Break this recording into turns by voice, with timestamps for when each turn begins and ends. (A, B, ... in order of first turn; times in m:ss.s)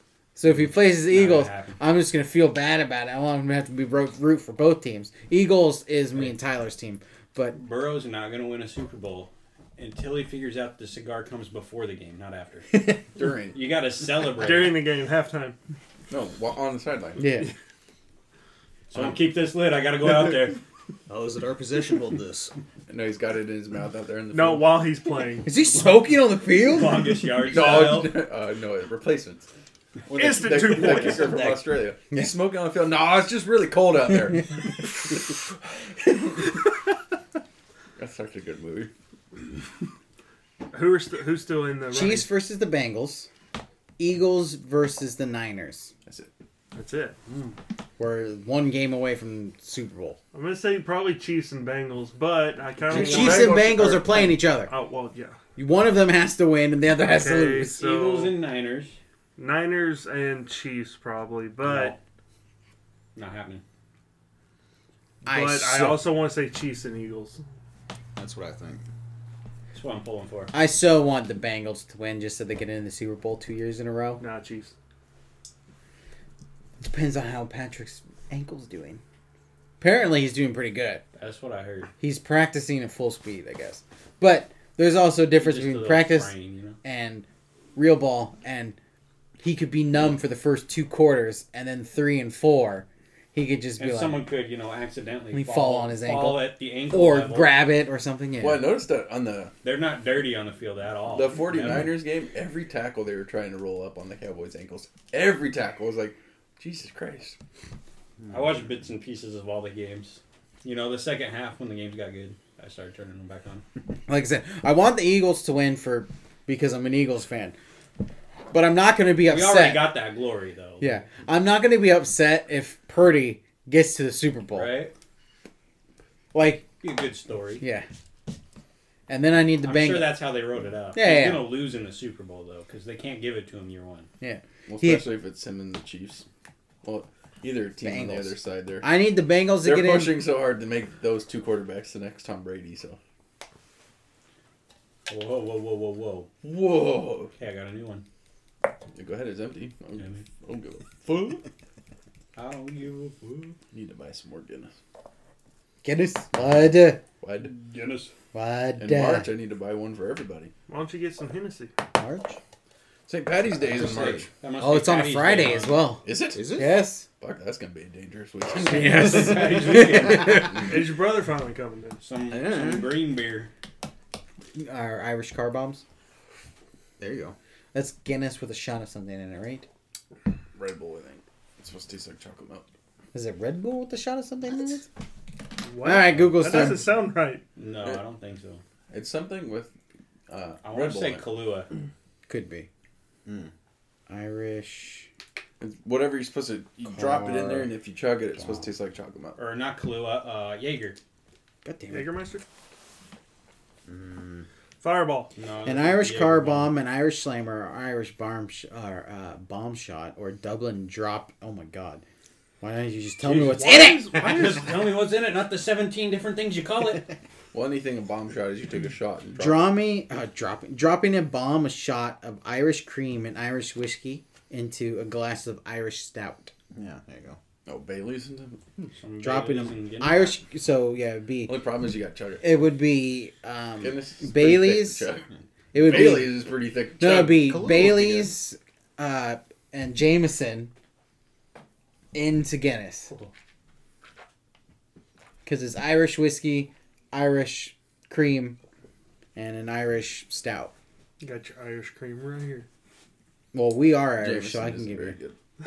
0:00.4-0:07.6 A
0:01.1-0:01.8 B
0:07.5-0:12.7 B
0:12.7-0:13.0 A
0:13.2-0:13.6 C
0:13.5-0:14.8 B
0:14.3-0:15.6 D
0:16.1-0:17.2 C
0:17.2-0:17.5 A
0:18.9-0:20.6 B
0:21.1-0:22.6 E
0:22.9-0:24.9 C
0:24.3-0:25.5 D
0:25.4-0:27.2 A
0:26.7-0:28.1 B
0:27.5-0:29.5 C
0:30.1-0:31.6 D
0:30.1-0:34.7 C
0:30.4-0:31.5 B
0:38.0-0:38.9 C
0:40.7-0:42.3 D
0:41.9-0:43.3 A
0:44.0-0:45.9 A
0:46.7-0:47.2 D
0:48.0-0:50.2 A
0:50.3-0:55.4 D
0:52.9-0:54.7 A
0:53.0-0:54.0 C
0:55.6-0:57.8 A
0:57.0-0:58.4 D
0:57.8-0:59.0 B
0:59.4-1:02.0 D
1:01.6-1:02.0 B
1:03.2-1:03.6 B
1:05.2-1:06.1 A
1:05.3-1:07.4 D
1:08.2-1:08.8 E
1:09.7-1:10.5 B
1:10.5-1:14.2 A
1:14.2-1:14.7 D
1:16.8-1:19.0 A
1:19.8-1:21.0 A
1:21.2-1:21.9 B
1:22.0-1:28.8 A
1:25.4-1:26.8 B
1:29.4-1:34.2 A
1:33.8-1:37.6 B
1:35.3-1:38.7 A
1:38.4-1:39.5 C
1:39.6-1:42.0 B
1:41.1-1:47.4 C
1:48.3-1:53.6 B
1:54.1-1:57.6 A
1:58.5-2:00.0 A
1:59.2-2:01.0 B
2:00.8-2:04.7 A
2:04.5-2:04.9 B
2:06.3-2:06.7 A
2:06.8-2:07.6 B
2:07.6-2:07.9 A
2:09.1-2:10.2 A
2:09.6-2:14.1 B
2:10.9-2:11.5 A
2:14.2-2:15.0 A
2:14.7-2:16.2 C
2:16.8-2:18.9 C
2:17.8-2:20.2 A
2:19.6-2:23.0 C
2:25.1-2:26.3 B
2:26.4-2:27.3 C
2:27.4-2:28.0 B
2:28.9-2:31.5 C
2:30.0-2:30.2 B
2:32.4-2:33.6 B
2:33.7-2:34.8 C
2:35.8-2:37.0 A
2:37.2-2:37.6 C
2:37.4-2:38.1 B
2:38.3-2:39.3 A
2:38.8-2:40.5 C
2:40.7-2:41.7 D
2:42.0-2:42.4 A
2:43.1-2:44.3 C
2:43.7-2:45.9 B
2:44.6-2:47.1 A
2:46.0-2:46.6 C
2:46.3-2:46.8 E
2:47.2-2:49.6 C
2:48.6-2:50.7 A
2:48.7-2:50.6 B
2:50.5-2:52.0 D
2:52.0-2:53.5 B
2:52.3-2:52.8 E
2:54.6-2:55.8 A
2:57.0-2:57.4 E
2:57.7-2:59.7 A
3:00.6-3:02.7 C
3:03.1-3:04.9 A
3:05.6-3:07.4 D
3:05.8-3:07.0 A
3:07.6-3:08.6 B
3:08.9-3:09.7 C
3:10.3-3:11.2 C
3:10.6-3:11.7 B
3:12.3-3:12.7 A
3:13.3-3:13.5 E
3:14.1-3:15.1 A
3:15.6-3:19.4 C
3:17.0-3:17.7 A
3:19.4-3:21.0 B
3:21.6-3:22.1 A
3:21.9-3:22.4 D
3:23.9-3:24.4 E
3:24.8-3:25.3 D
3:25.4-3:26.7 B
3:25.6-3:32.0 A
3:32.6-3:34.6 A
3:33.3-3:37.1 B
3:33.3-3:34.8 D
3:37.5-3:39.7 C
3:39.4-3:46.5 A
3:46.7-3:47.4 E
3:47.7-3:48.6 C
3:49.0-3:50.4 B
3:49.2-3:51.7 A
3:51.5-3:52.6 C
3:52.4-3:55.1 A
3:53.8-3:58.2 C
3:55.7-3:56.5 A
3:57.0-4:00.7 A
3:57.2-3:58.3 E
4:02.1-4:03.1 A
4:05.4-4:08.6 A
4:09.4-4:10.7 A
4:11.2-4:12.7 D
4:13.5-4:15.2 A
4:14.2-4:15.4 C